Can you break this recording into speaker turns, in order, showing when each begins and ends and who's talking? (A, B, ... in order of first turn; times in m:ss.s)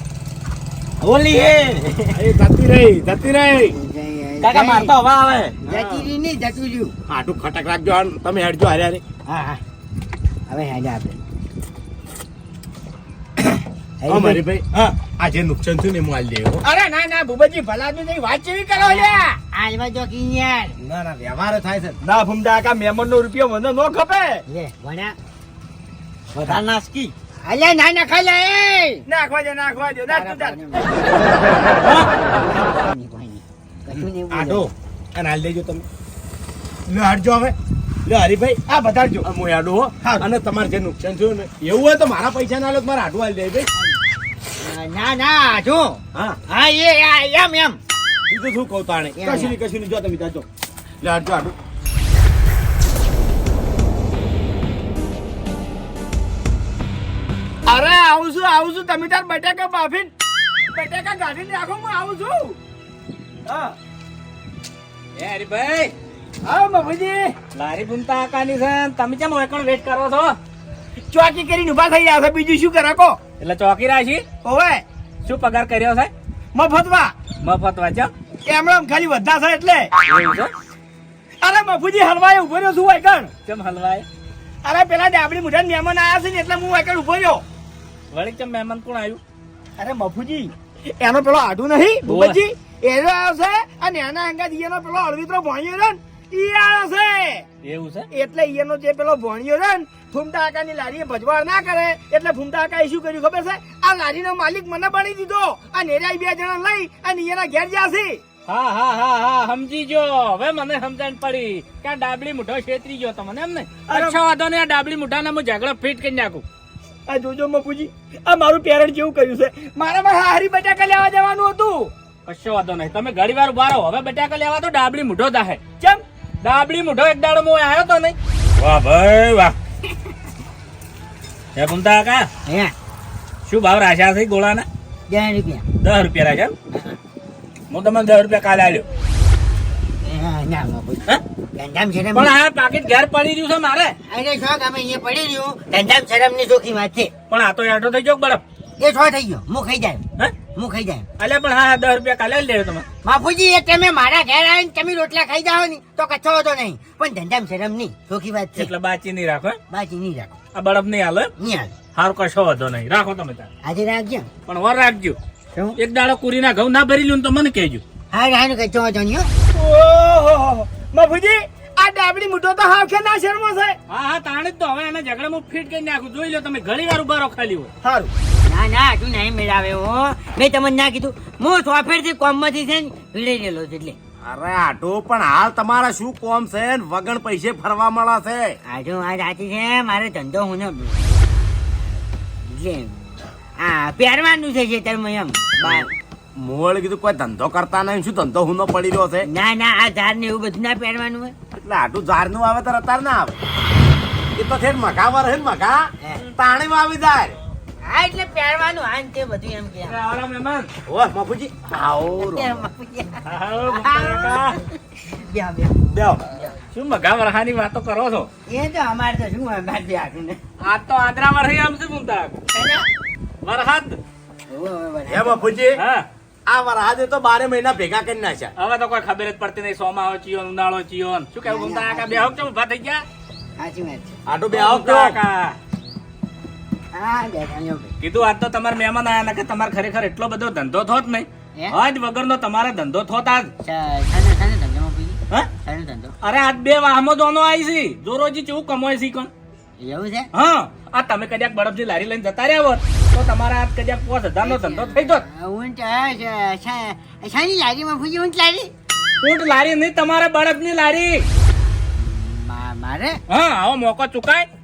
0:01.0-0:02.1 A
0:02.1-0:03.8 B
0:03.7-0:04.9 C
0:04.4-0:05.6 A
0:05.7-0:06.1 B
0:05.7-0:06.9 C
0:07.1-0:09.0 B
0:09.3-0:09.6 C
0:10.5-0:11.2 C
0:14.0-0:14.4 C
0:14.1-0:16.6 B
0:16.6-0:19.4 D
0:18.8-0:20.8 C
0:20.8-0:22.0 B
0:22.0-0:24.4 D
0:24.5-0:25.2 C
0:26.3-0:27.1 A
0:27.4-0:29.0 C
0:29.1-0:31.1 D
0:30.1-0:34.6 C
0:34.3-0:35.8 B
0:36.9-0:37.6 B
0:38.1-0:38.6 B
0:38.7-0:39.3 D
0:39.2-0:43.7 B
0:44.6-0:47.8 C
0:48.3-0:50.4 B
0:49.2-0:49.6 C
0:51.0-0:51.6 B
0:57.7-1:00.1 D
1:00.7-1:02.6 D
1:03.5-1:03.7 D
1:05.2-1:05.9 E
1:06.4-1:07.4 D
1:07.5-1:10.4 E
1:11.1-1:13.2 D
1:13.4-1:14.2 E
1:14.4-1:14.8 D
1:15.2-1:16.1 E
1:16.6-1:17.1 D
1:17.4-1:18.1 E
1:18.5-1:19.9 D
1:20.0-1:20.5 E
1:21.4-1:23.3 D
1:23.5-1:24.1 E
1:24.6-1:27.4 D
1:28.1-1:29.2 E
1:29.8-1:37.5 D
1:32.1-1:32.4 E
1:37.6-1:38.1 E
1:38.1-1:48.2 D
1:48.5-1:56.4 E
1:53.9-1:54.2 D
1:57.1-2:01.9 D
2:02.3-2:05.6 E
2:06.4-2:09.6 E
2:11.6-2:12.3 E
2:12.5-2:12.7 C
2:13.5-2:14.7 E
2:15.1-2:15.6 C
2:15.8-2:16.5 E
2:17.7-2:18.9 E
2:20.0-2:22.3 C
2:22.1-2:24.0 E
2:24.1-2:27.1 C
2:27.3-2:28.4 E
2:28.8-2:30.0 C
2:30.5-2:31.1 C
2:31.2-2:32.9 E
2:33.0-2:38.7 C
2:38.6-2:39.6 E
2:39.7-2:40.3 C
2:40.5-2:41.3 E
2:41.4-2:41.7 C
2:42.0-2:43.5 E
2:43.6-2:44.3 C
2:44.5-2:45.2 E
2:45.8-2:47.8 E
2:48.1-2:49.3 C
2:49.5-2:53.8 D
2:53.9-2:57.7 E
2:57.8-2:58.1 D
2:58.5-3:04.0 C
3:04.2-3:08.6 B
3:08.7-3:11.2 C
3:11.8-3:15.9 C
3:16.4-3:19.3 B
3:19.2-3:21.3 C
3:21.6-3:23.4 B
3:24.4-3:25.8 B
3:26.4-3:27.4 B
3:27.9-3:30.0 C
3:29.8-3:30.7 E
3:30.9-3:32.6 B
3:32.2-3:36.6 C
3:33.3-3:34.6 E
3:35.9-3:36.2 B
3:36.7-3:38.3 E
3:38.5-3:40.4 C
3:40.6-3:42.4 E
3:42.5-3:42.9 C
3:43.4-3:44.0 E
3:44.5-3:45.4 C
3:45.1-3:45.8 B
3:45.8-3:46.0 E
3:46.5-3:48.5 B
3:48.6-3:53.0 E
3:51.4-3:52.4 C
3:53.6-3:54.2 C
3:54.3-3:55.2 B
3:54.5-3:55.6 E
3:56.9-3:57.9 C
3:58.0-4:03.5 E
4:03.6-4:06.1 C
4:06.2-4:09.3 E
4:09.8-4:10.3 C
4:10.3-4:15.2 E
4:14.4-4:18.7 C
4:19.2-4:21.2 E
4:22.0-4:23.2 C
4:23.3-4:24.5 E